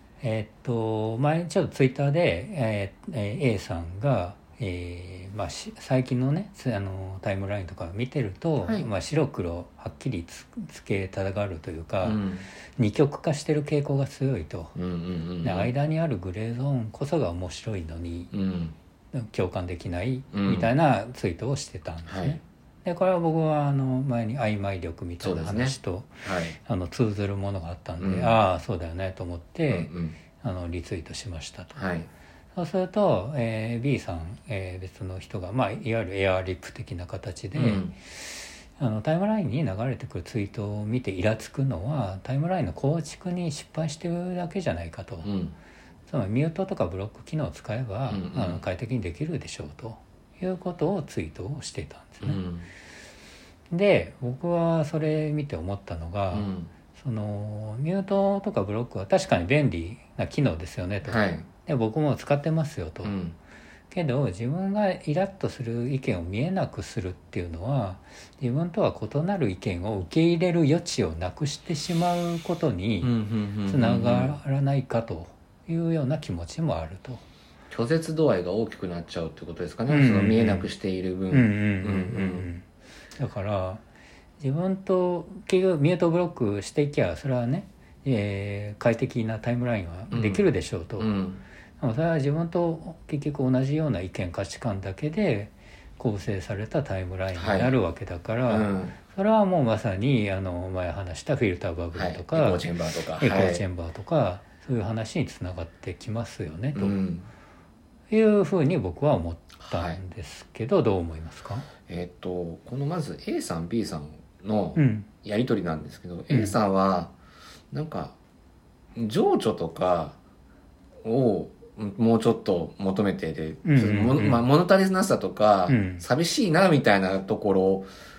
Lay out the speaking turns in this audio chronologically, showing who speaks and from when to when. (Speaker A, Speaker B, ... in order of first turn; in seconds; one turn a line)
Speaker A: 0.2-12.2
Speaker B: 8.6-8.9
Speaker B: 12.0-12.5
Speaker A: 12.8-14.8
Speaker B: 14.8-15.7
Speaker A: 15.4-18.3
Speaker B: 18.3-18.8
Speaker A: 19.1-29.9
Speaker B: 20.3-20.7
Speaker B: 22.1-22.4
Speaker B: 25.2-26.6
Speaker B: 28.0-28.4
Speaker B: 29.7-30.2
Speaker A: 30.4-31.8
Speaker B: 31.8-32.1
Speaker A: 32.5-38.2
Speaker B: 37.5-37.9
Speaker A: 38.8-45.3
Speaker B: 45.2-45.5
Speaker A: 46.1-52.4
Speaker B: 48.1-48.6
Speaker B: 52.2-52.7
Speaker A: 53.7-63.1
Speaker B: 56.3-56.7
Speaker B: 61.0-61.5
Speaker B: 63.0-63.4
Speaker A: 63.9-73.1
Speaker B: 73.0-74.4
Speaker A: 73.7-77.2
Speaker B: 77.7-82.5
Speaker A: 79.9-80.7
Speaker A: 81.3-82.7
Speaker A: 83.2-83.8
Speaker A: 84.4-91.1
Speaker B: 90.1-90.5
Speaker B: 91.0-91.4
Speaker A: 91.8-102.7
Speaker B: 97.3-97.7
Speaker B: 98.5-99.0
Speaker B: 101.9-103.7
Speaker A: 103.2-107.0
Speaker B: 106.8-107.3
Speaker A: 108.1-111.7
Speaker B: 109.6-110.0
Speaker B: 111.9-117.1
Speaker A: 114.8-115.1
Speaker A: 116.3-116.6
Speaker B: 117.7-118.2
Speaker B: 119.0-120.2
Speaker B: 121.0-127.9
Speaker A: 123.6-124.4
Speaker A: 125.7-126.0